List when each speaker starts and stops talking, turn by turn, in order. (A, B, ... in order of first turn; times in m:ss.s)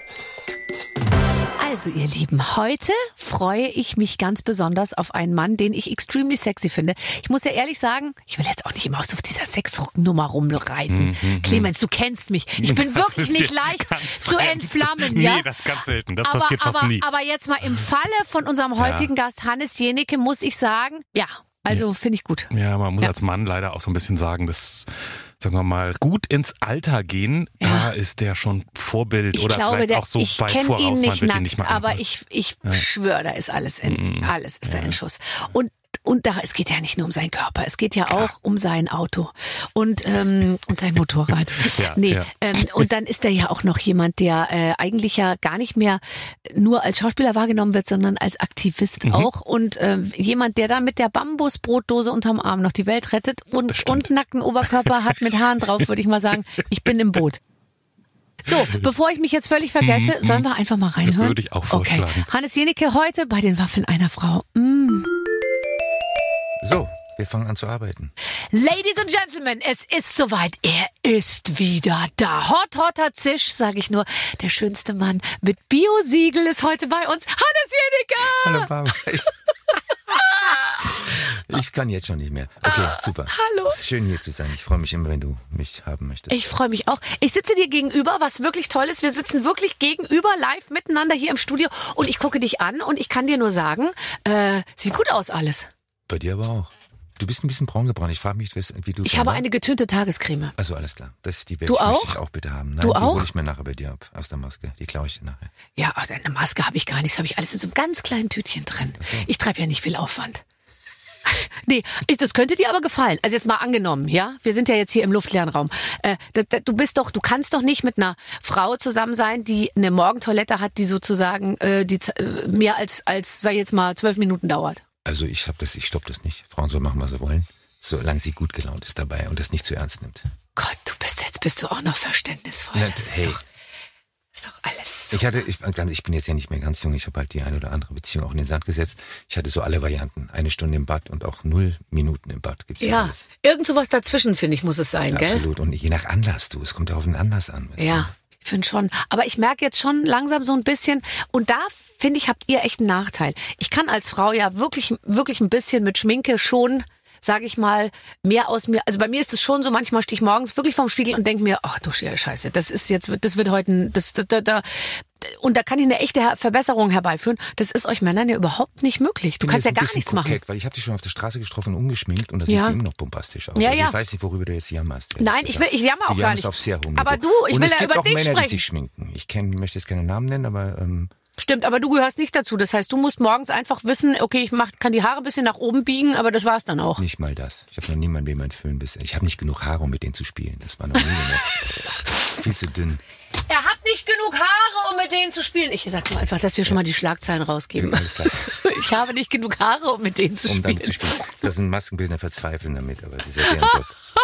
0:01.6-0:15.6 A
0:10.9-0:11.7 B
0:12.6-0:17.0 B
0:16.2-0:22.5 A
0:18.8-0:19.1 B
0:22.5-0:32.0 B
0:27.6-0:27.9 A
0:29.3-0:57.4 A
0:33.8-0:35.0 B
0:41.6-0:42.8 B
0:49.0-0:49.3 B
0:53.7-0:54.1 B
0:58.5-1:05.1 A
0:59.8-1:00.5 B
1:01.0-1:02.3 B
1:06.6-1:08.1 C
1:08.5-1:18.7 A
1:18.2-1:19.3 C
1:20.1-1:21.1 A
1:20.9-1:26.5 C
1:22.6-1:23.8 A
1:26.3-1:35.7 A
1:36.1-1:39.4 C
1:39.0-1:40.5 A
1:40.6-1:45.5 C
1:41.7-1:42.2 A
1:42.8-1:43.3 A
1:45.8-1:50.4 A
1:49.0-1:49.3 C
1:51.2-2:04.8 A
2:05.0-2:10.2 C
2:10.6-2:13.4 A
2:12.7-2:13.4 C
2:14.3-2:15.2 A
2:15.1-2:23.2 C
2:22.8-2:25.4 A
2:25.1-2:28.1 C
2:27.8-2:50.4 A
2:49.4-3:01.1 C
2:52.5-2:52.8 A
2:53.5-2:54.0 A
2:55.2-2:58.6 A
3:01.4-3:07.0 A
3:07.0-3:13.0 C
3:13.4-3:21.2 A
3:17.8-3:18.5 C
3:20.4-3:23.9 C
3:23.5-3:23.7 A